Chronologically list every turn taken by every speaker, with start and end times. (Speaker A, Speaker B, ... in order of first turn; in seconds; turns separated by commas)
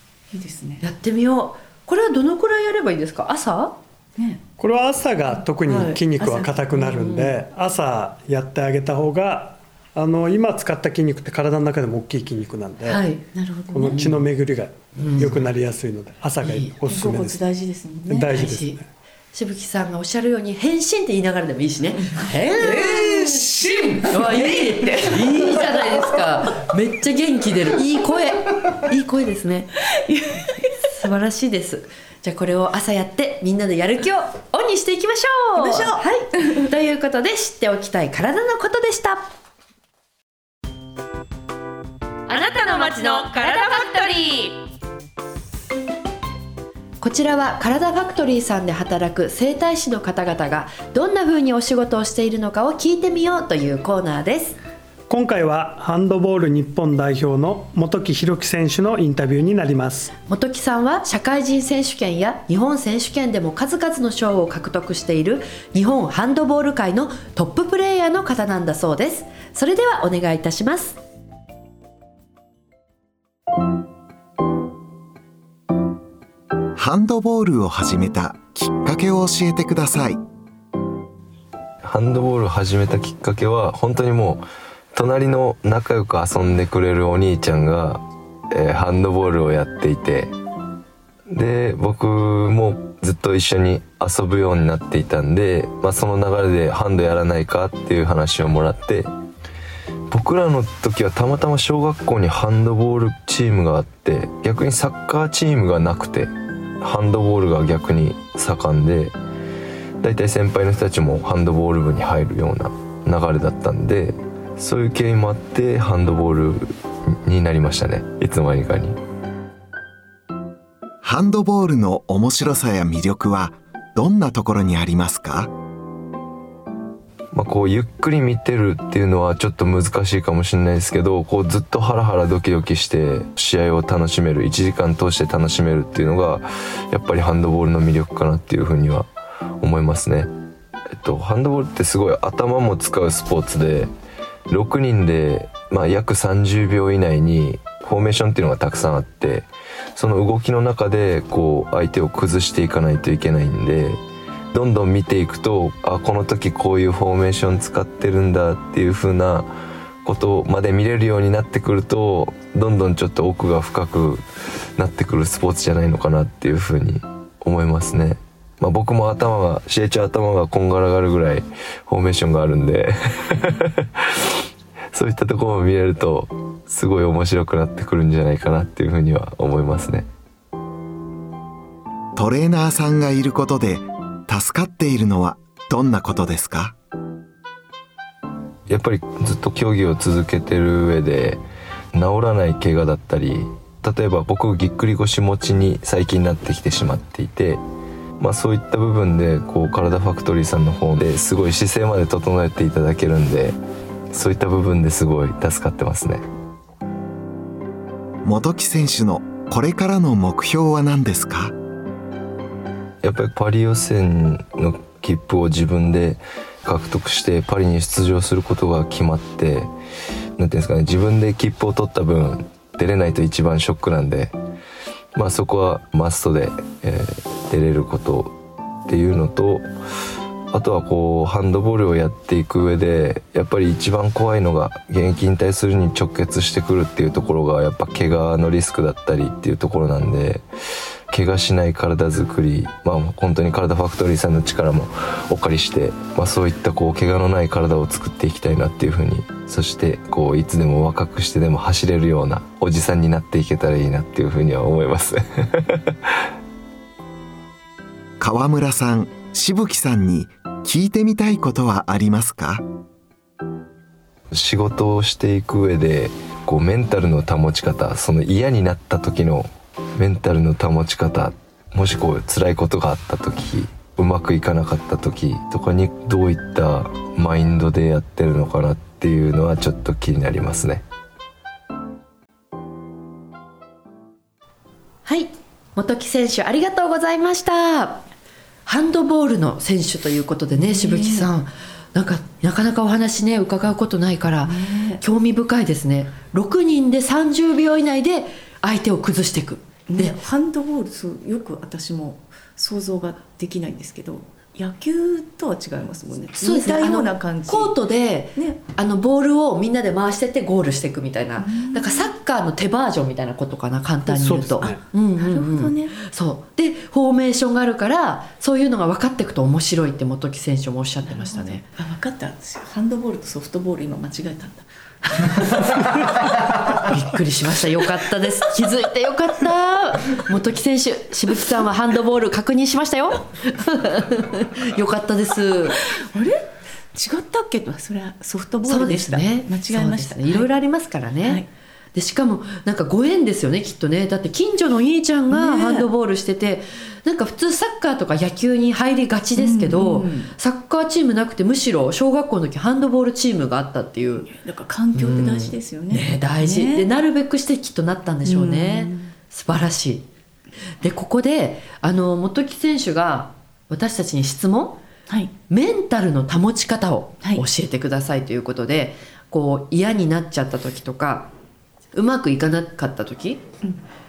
Speaker A: 0.3-0.9, Speaker B: 0.8-3.8, Speaker A: 4.2-4.4, Speaker C: 4.6-13.0, Speaker A: 5.7-6.6, Speaker B: 6.7-7.4, Speaker B: 12.8-13.2, Speaker A: 13.3-14.1, Speaker C: 13.7-17.4, Speaker B: 13.9-14.2, Speaker B: 15.0-15.4, Speaker B: 16.4-16.7, Speaker A: 16.9-18.5, Speaker C: 18.1-18.9, Speaker B: 18.3-18.8, Speaker B: 19.3-29.7, Speaker A: 22.0-26.2, Speaker A: 29.9-30.9, Speaker B: 30.9-39.3, Speaker A: 35.5-36.7, Speaker D: 42.3-44.6, Speaker B: 47.0-54.6, Speaker C: 55.1-60.1, Speaker B: 60.2-71.0, Speaker E: 76.8-80.2, Speaker F: 81.8-90.3, Speaker F: 91.3-99.1, Speaker F: 100.1-106.3, Speaker F: 106.8-109.1, Speaker F: 110.0-119.0, Speaker E: 121.0-125.5, Speaker F: 127.3-139.1, Speaker F: 139.6-140.3, Speaker F: 141.0-143.9, Speaker F: 144.5-154.0, Speaker F: 154.5-159.5, Speaker F: 160.1-164.2, Speaker F: 164.8-174.3, Speaker F: 174.9-180.1, Speaker E: 182.2-186.8, Speaker F: 188.7-191.4, Speaker F: 191.9-197.6, Speaker F: 198.2-203.6, Speaker F: 204.1-206.2, Speaker E: 208.2-211.5, Speaker F: 213.0-219.7, Speaker F: 220.4-224.3, Speaker F: 225.2-228.3, Speaker F: 228.9-229.7, Speaker F: 230.5-240.4, Speaker F: 241.1-256.1, Speaker E: 258.2-262.6, Speaker F: 264.3-280.8, Speaker B: 285.1-288.1, Speaker B: 288.7-300.2, Speaker A: 290.6-291.3, Speaker A: 294.4-295.0, Speaker A: 299.9-307.8, Speaker B: 306.4-321.6, Speaker A: 308.4-308.6, Speaker A: 311.4-312.1, Speaker C: 314.1-314.8, Speaker A: 314.6-316.0, Speaker A: 321.1-325.7, Speaker B: 326.9-335.8, Speaker A: 335.7-340.5, Speaker B: 338.7-341.4, Speaker B: 341.9-354.3, Speaker A: 345.3-345.9, Speaker A: 349.4-350.3, Speaker A: 354.2-356.9, Speaker B: 354.9-360.1, Speaker A: 358.2-359.1, Speaker B: 360.8-364.8, Speaker B: 365.5-371.3, Speaker B: 371.9-373.4